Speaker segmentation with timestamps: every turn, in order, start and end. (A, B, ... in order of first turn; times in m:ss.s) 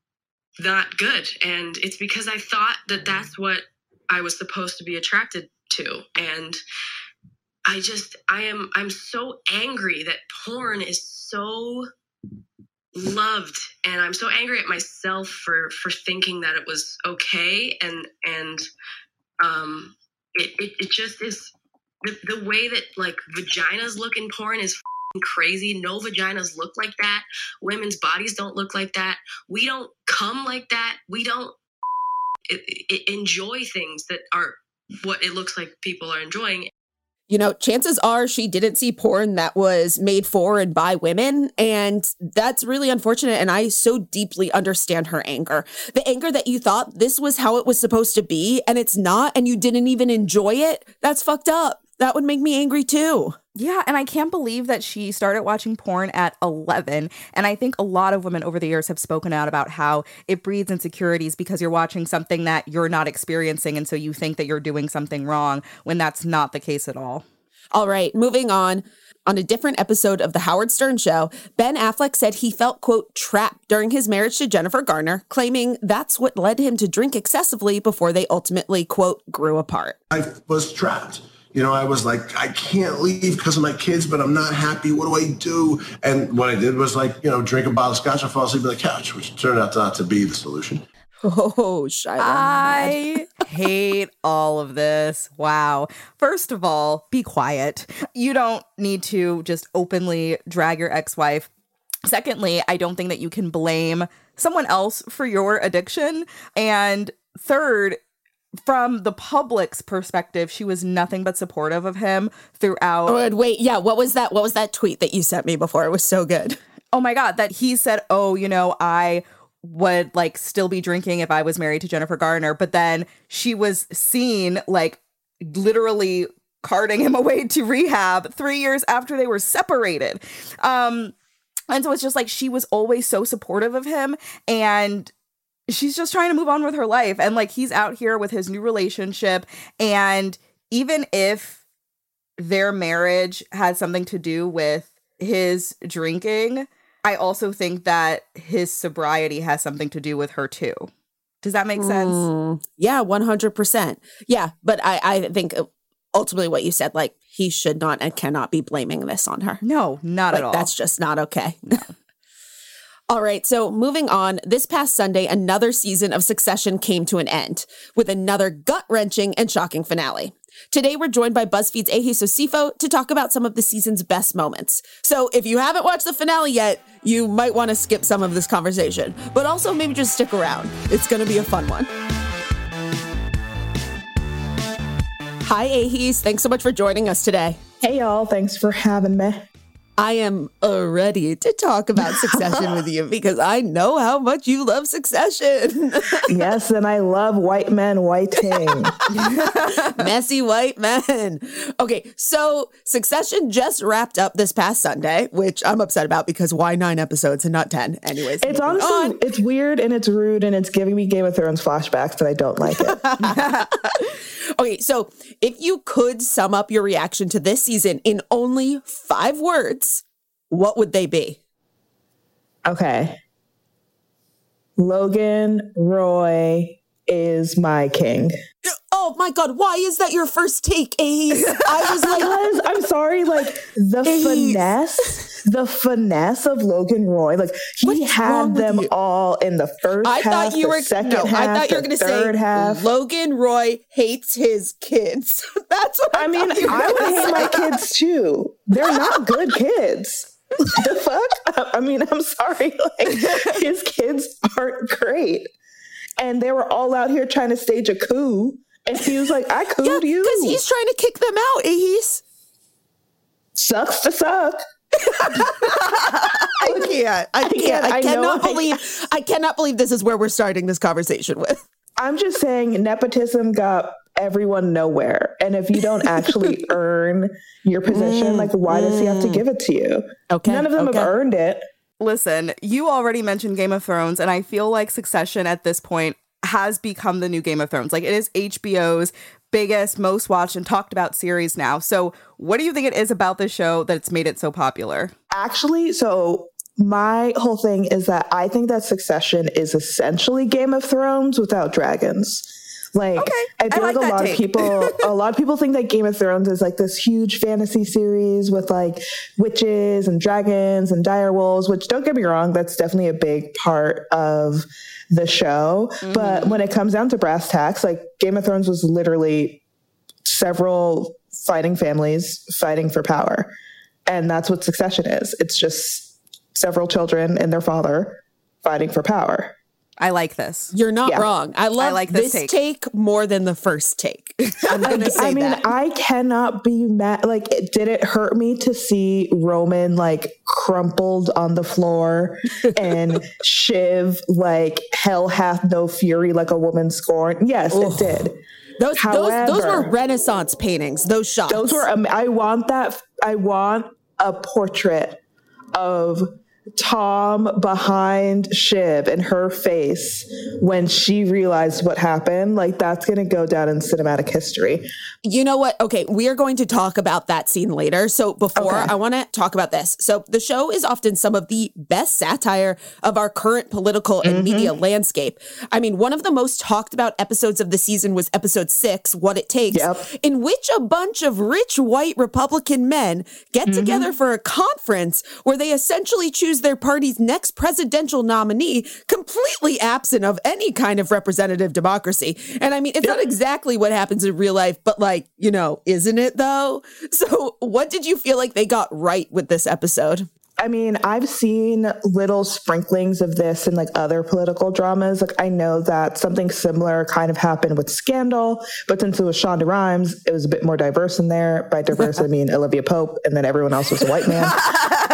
0:00.6-0:06.6 A
0:07.7-0:11.9 A
0:13.0-0:18.6 A
0:19.4-0:21.5 A
0:22.0-0:31.6 A
0:32.5-0:36.7 A
0:37.3-0:53.4 B
0:53.6-1:07.2 C
1:07.7-1:20.0 B
1:20.1-1:30.8 D
1:31.2-1:33.2 B
1:32.2-1:41.5 C
1:42.0-1:48.0 C
1:48.6-1:53.2 C
1:53.1-1:56.6 B
1:56.9-2:11.2 C
2:11.7-2:15.1 C
2:15.7-2:21.6 C
2:22.4-2:30.9 C
2:31.4-2:32.2 C
2:31.8-2:39.6 B
2:39.6-2:40.7 C
2:40.3-2:41.6 B
2:43.1-3:01.9 B
3:05.4-3:07.6 B
3:07.8-3:09.5 E
3:10.0-3:16.3 B
3:12.0-3:12.8 E
3:16.3-3:19.0 E
3:19.1-3:29.2 B
3:28.4-3:33.1 E
3:32.8-3:34.0 B
3:34.6-3:41.4 B
3:42.6-3:43.2 E
3:44.8-3:48.3 E
3:48.6-3:52.3 B
3:52.0-4:02.9 E
3:54.0-3:54.7 B
3:57.8-3:58.9 B
4:00.0-4:07.6 B
4:06.1-4:15.5 E
4:16.2-4:20.6 E
4:19.8-4:22.2 B
4:23.6-4:24.6 E
4:25.1-4:31.6 B
4:26.6-4:28.7 E
4:32.0-4:41.6 E
4:37.9-4:39.4 B
4:40.3-4:41.1 B
4:42.0-4:55.1 C
4:55.3-5:19.6 E
5:03.2-5:05.0 C
5:16.0-5:16.6 C
5:20.2-5:23.5 E
5:24.1-5:29.6 E
5:30.0-5:30.7 C
5:30.7-5:35.6 B
5:31.8-5:32.5 C
5:34.8-5:48.4 E
5:47.7-5:48.3 B
5:48.8-5:51.9 B
5:49.0-5:49.9 E
5:51.5-5:55.2 E
5:55.7-6:04.9 E
6:05.2-6:40.3 B
6:08.6-6:08.9 E
6:14.2-6:14.7 E
6:19.7-6:20.0 E
6:23.7-6:24.1 E
6:40.6-6:54.7 E